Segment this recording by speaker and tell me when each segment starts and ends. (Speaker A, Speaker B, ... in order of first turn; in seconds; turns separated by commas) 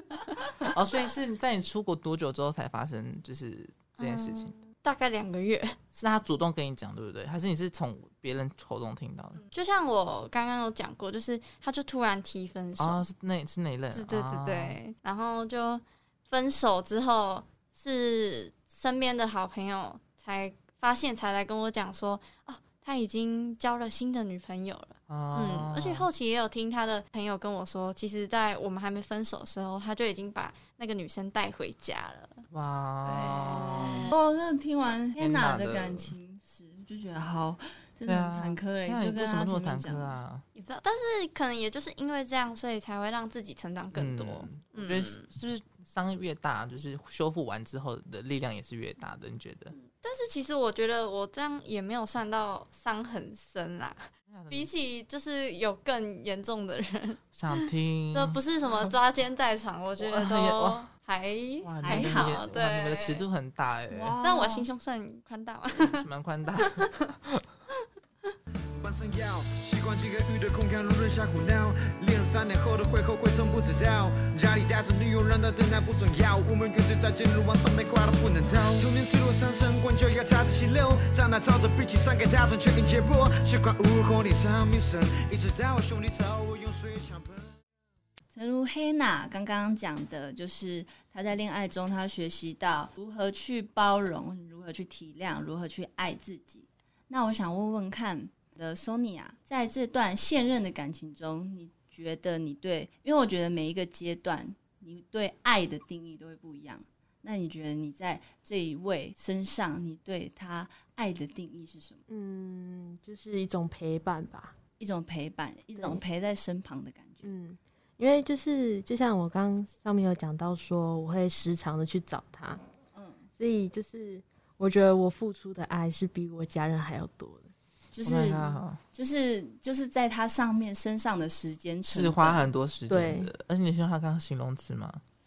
Speaker A: 0.6-4.5, Speaker B: 4.0-5.8, Speaker A: 5.9-9.4, Speaker B: 9.5-13.0, Speaker A: 12.8-14.8, Speaker B: 13.9-32.4, Speaker A: 25.1-26.1, Speaker A: 32.5-34.1, Speaker B: 33.0-34.1, Speaker C: 33.4-40.2, Speaker A: 35.2-36.1, Speaker A: 38.0-40.4, Speaker B: 40.5-45.2, Speaker A: 43.9-49.7, Speaker B: 49.7-63.2, Speaker A: 54.3-54.7, Speaker A: 57.3-58.9, Speaker A: 60.0-60.9, Speaker A: 61.6-64.2, Speaker C: 61.8-62.4, Speaker C: 63.9-64.7, Speaker B: 64.2-66.1, Speaker A: 65.8-67.4, Speaker B: 66.6-67.0, Speaker D: 68.8-87.6, Speaker C: 88.3-112.0, Speaker E: 112.1-114.5, Speaker C: 114.8-117.3, Speaker E: 117.2-122.6, Speaker C: 122.9-123.2, Speaker E: 123.4-127.5, Speaker C: 127.9-132.4, Speaker A: 128.0-128.8, Speaker A: 131.9-135.0, Speaker E: 132.9-133.3